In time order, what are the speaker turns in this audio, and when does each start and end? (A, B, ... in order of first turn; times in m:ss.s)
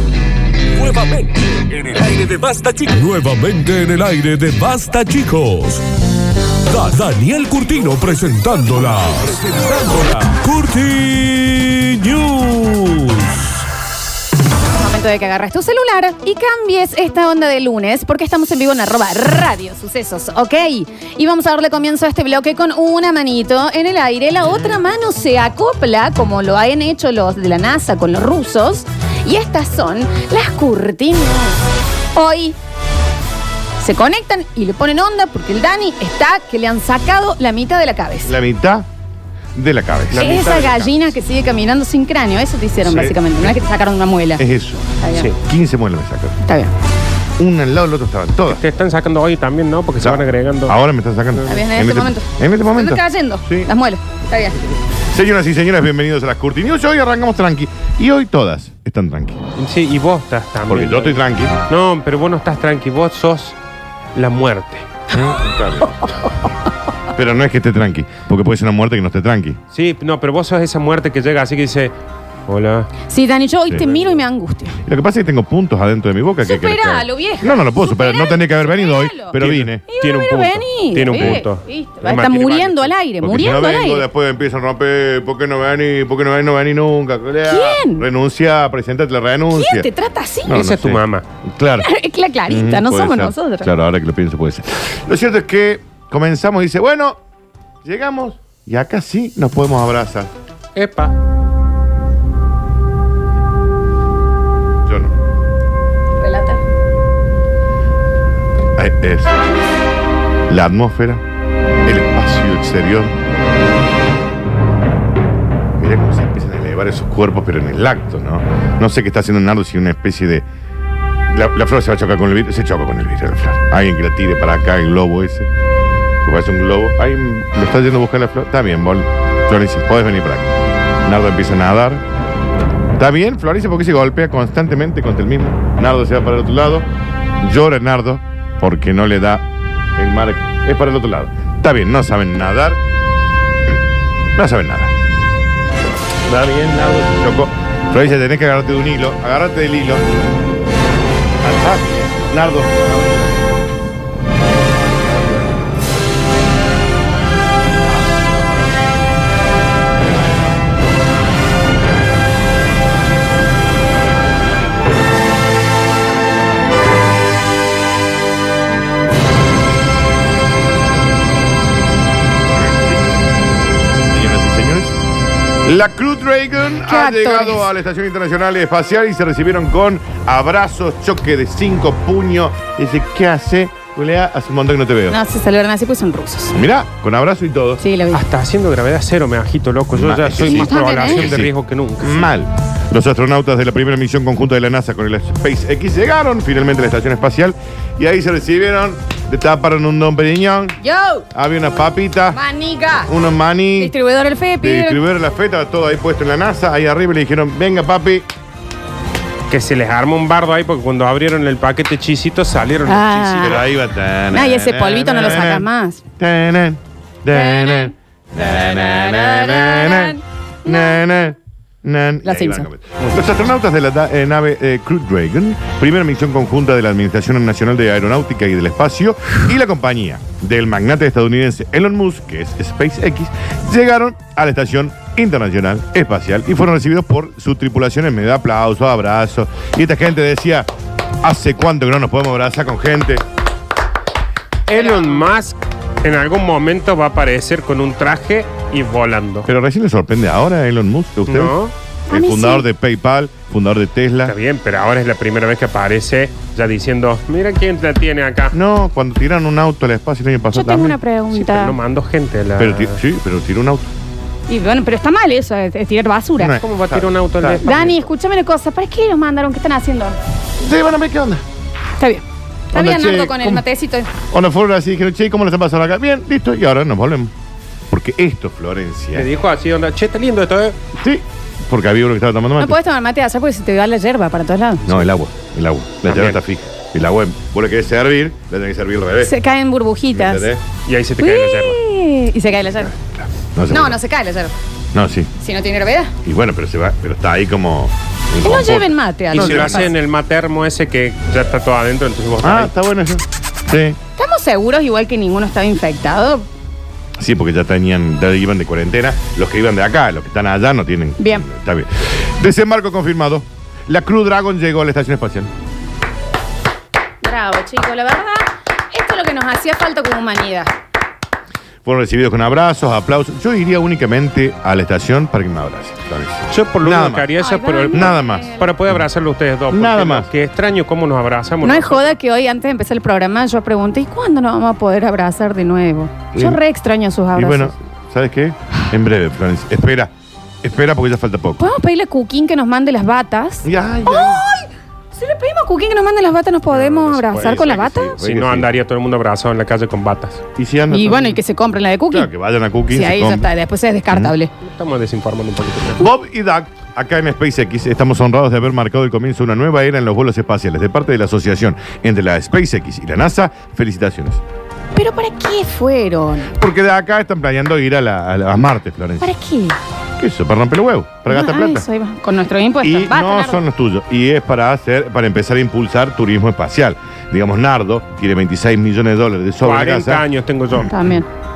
0:00.7-0:05.8 A
0:06.7-0:13.6 A
0:14.8-0:31.6 B
0:32.1-0:32.6 B
0:33.8-0:38.4 B
0:38.2-0:38.9 C
0:39.6-0:40.4 C
0:40.1-0:41.1 D
0:40.2-0:44.4 B
0:42.8-0:43.6 C
0:44.4-0:46.4 C
0:45.0-0:45.3 B
0:46.4-0:46.7 B
0:47.4-0:48.6 C
0:48.5-0:50.8 D
0:50.0-0:53.7 C
0:51.4-0:54.6 B
0:55.1-0:59.4 C
0:59.6-1:03.6 D
1:00.7-1:01.6 C
1:04.2-1:04.9 D
1:05.1-1:06.0 C
1:07.1-1:09.6 C
1:09.7-1:11.9 D
1:12.5-1:12.9 D
1:13.1-1:14.8 B
1:14.8-1:19.8 C
1:16.4-1:24.1 B
1:19.4-1:22.9 D
1:21.1-1:21.4 C
1:23.2-1:29.9 C
1:27.5-1:28.1 B
1:29.5-1:30.6 B
1:30.5-1:31.9 C
1:30.5-1:31.2 D
1:31.8-1:33.7 B
1:32.5-1:37.2 C
1:37.8-1:40.3 C
1:40.8-1:41.1 D
1:44.9-1:45.1 C
1:46.2-1:46.6 B
1:48.8-1:49.4 C
1:50.5-1:51.2 C
1:51.8-1:53.2 C
1:55.8-2:00.5 C
2:01.3-2:05.5 C
2:06.2-2:12.0 C
2:13.0-2:16.9 C
2:17.4-2:19.4 C
2:20.0-2:22.8 C
2:24.4-2:24.9 C
2:26.3-2:30.0 C
2:31.4-2:33.0 C
2:54.1-2:55.0 C
2:55.6-3:05.2 C
2:56.9-2:57.7 B
3:05.1-3:06.6 B
3:06.5-3:07.8 C
3:07.8-3:08.2 B
3:08.1-3:12.3 D
3:09.9-3:20.8 C
3:10.4-3:11.2 B
3:20.8-3:21.3 B
3:21.3-3:22.4 C
3:22.3-3:23.1 B
3:23.1-3:23.9 C
3:23.8-3:25.0 B
3:24.6-3:28.3 C
3:29.5-3:33.6 D
3:32.9-3:33.6 B
3:33.4-3:35.7 C
3:34.3-3:36.0 B
3:36.2-4:00.7 C
3:37.3-3:41.0 B
3:42.2-3:42.7 B
4:01.2-4:03.2 C
4:04.7-4:09.5 D
4:04.7-4:05.2 B
4:09.5-4:11.6 C
4:11.3-4:11.7 D
4:12.1-4:12.6 B
4:12.1-4:14.4 C
4:14.2-4:18.6 D
4:18.5-4:21.0 C
4:20.5-4:21.8 B
4:21.3-4:23.0 D
4:22.6-4:23.9 C
4:24.5-4:26.6 B
4:26.4-4:27.9 C
4:26.6-4:27.9 D
4:27.6-4:30.2 B
4:30.6-4:31.4 C
4:32.0-4:34.1 B
4:32.7-4:33.6 C
4:34.2-4:37.3 C
4:37.9-4:39.3 C
4:39.2-4:40.8 D
4:41.0-4:42.8 C
4:42.6-4:44.8 B
4:44.9-4:49.3 C
4:46.1-4:46.4 D
4:49.2-4:50.5 B
4:50.1-4:50.6 C
4:50.9-4:51.8 D
4:51.2-4:52.9 B
4:52.9-4:54.0 C
4:53.7-4:54.5 B
4:54.9-4:55.3 C
4:55.4-4:56.1 B
4:56.2-4:59.9 C
4:58.4-4:59.9 B
4:59.3-5:02.7 D
5:02.4-5:04.0 C
5:04.2-5:06.5 B
5:07.2-5:15.5 C
5:11.2-5:11.5 B
5:17.2-5:20.7 B
5:21.8-5:27.4 C
5:26.5-5:32.2 D
5:27.4-5:28.7 B
5:27.9-5:28.6 C
5:29.7-5:30.3 C
5:31.6-5:37.8 B
5:36.3-5:36.6 C
5:37.4-5:41.7 C
5:41.6-5:48.2 B
5:43.6-5:44.4 C
5:46.7-5:47.6 D
5:46.8-5:48.7 C
5:48.2-5:50.4 D
5:50.6-5:51.4 C
5:50.9-5:52.3 B
5:52.1-5:53.5 C
5:52.9-5:54.5 B
5:54.6-5:56.0 D
5:56.0-6:04.4 C
6:05.0-6:06.6 B
6:06.6-6:09.3 C
6:09.2-6:09.8 B
6:10.2-6:11.9 C
6:11.3-6:13.6 B
6:12.8-6:20.2 C
6:19.6-6:20.9 D
6:20.9-6:21.3 B